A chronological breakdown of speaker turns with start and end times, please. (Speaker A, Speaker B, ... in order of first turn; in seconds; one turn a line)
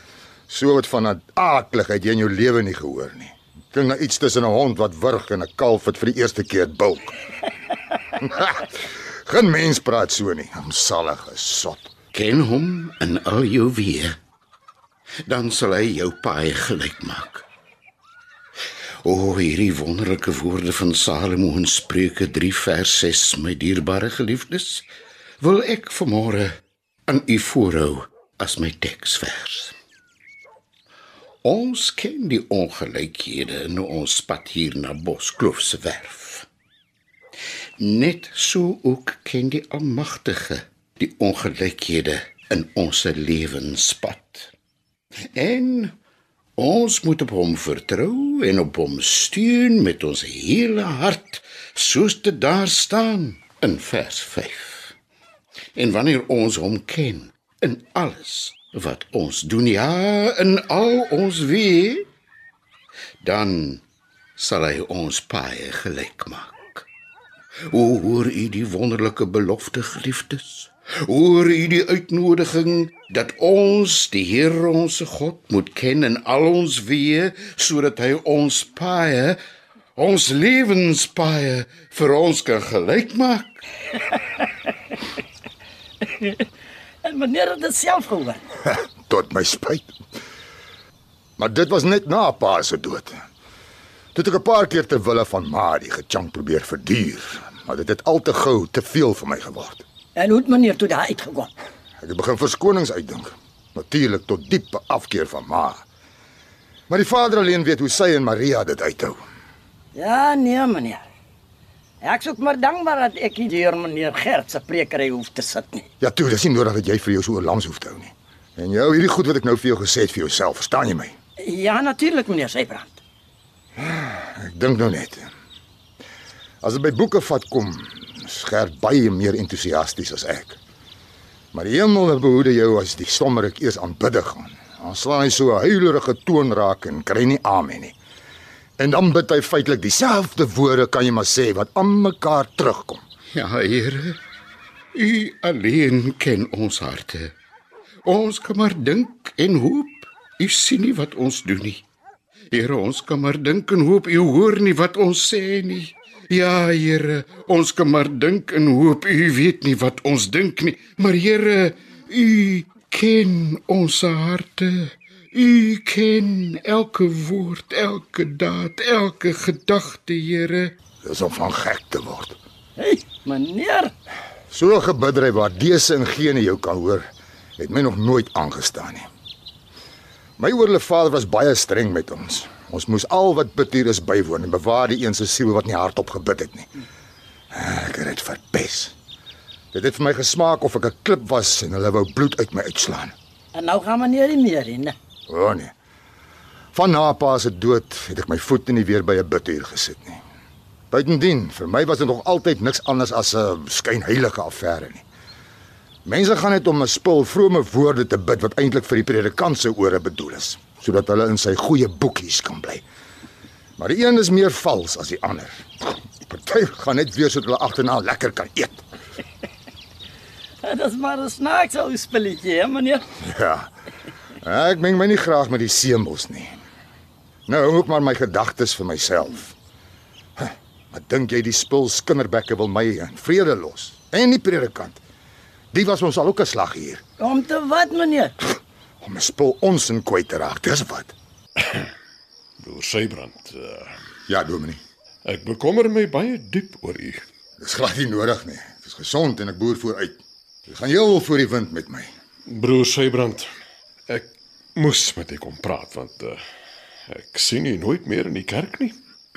Speaker A: 0.5-7.2
Speaker A: 8.2-8.7
Speaker A: 9.2-11.9
Speaker B: 12.1-14.2
Speaker B: 15.2-17.5
Speaker B: 19.0-24.9
Speaker B: 25.4-26.5
Speaker B: 27.1-29.8
Speaker B: 31.4-36.5
Speaker B: 37.8-44.5
Speaker B: 45.3-45.9
Speaker B: 46.6-54.9
Speaker B: 55.8-62.1
Speaker B: 63.2-63.8
Speaker B: 64.4-66.9
Speaker B: 67.7-79.4
Speaker B: 80.0-83.6
Speaker C: 87.0-88.4
Speaker A: 88.7-89.9
Speaker A: 91.4-93.2
Speaker A: 94.1-99.8
Speaker C: 100.2-101.5
Speaker A: 102.0-105.8
Speaker A: 106.9-109.2
Speaker C: 109.9-111.0
Speaker C: 112.0-115.8
Speaker A: 116.0-121.2
Speaker C: 121.4-123.0
Speaker A: 123.8-125.3
Speaker A: 126.6-130.6
Speaker A: 131.5-137.9
Speaker A: 138.8-143.0
Speaker B: 143.3-144.2
Speaker B: 144.9-147.3
Speaker B: 148.1-151.8
Speaker B: 152.5-170.7
Speaker A: 171.0-172.4
Speaker C: 172.8-173.9
Speaker A: 174.5-177.0
Speaker A: 177.6-179.1
Speaker A: 180.4-186.7
Speaker A: 187.5-188.9
Speaker A: 189.7-193.2
Speaker C: 193.5-194.9
Speaker A: 195.3-195.7
Speaker A: 196.7-200.2
Speaker A: 200.9-205.0
Speaker A: 206.1-212.8
Speaker A: 213.8-215.7
Speaker A: 216.2-218.8
Speaker C: 220.6-223.0
Speaker A: 223.2-223.7
Speaker A: 224.4-226.5
Speaker A: 227.5-229.6
Speaker A: 230.4-235.0
Speaker A: 235.7-237.0
Speaker C: 237.2-238.3
Speaker A: 239.0-241.1
Speaker D: 242.6-243.9
Speaker A: 244.3-244.8
Speaker D: 245.2-247.2
Speaker A: 247.6-252.1
Speaker D: 252.5-253.5
Speaker D: 254.1-256.4
Speaker D: 257.1-259.0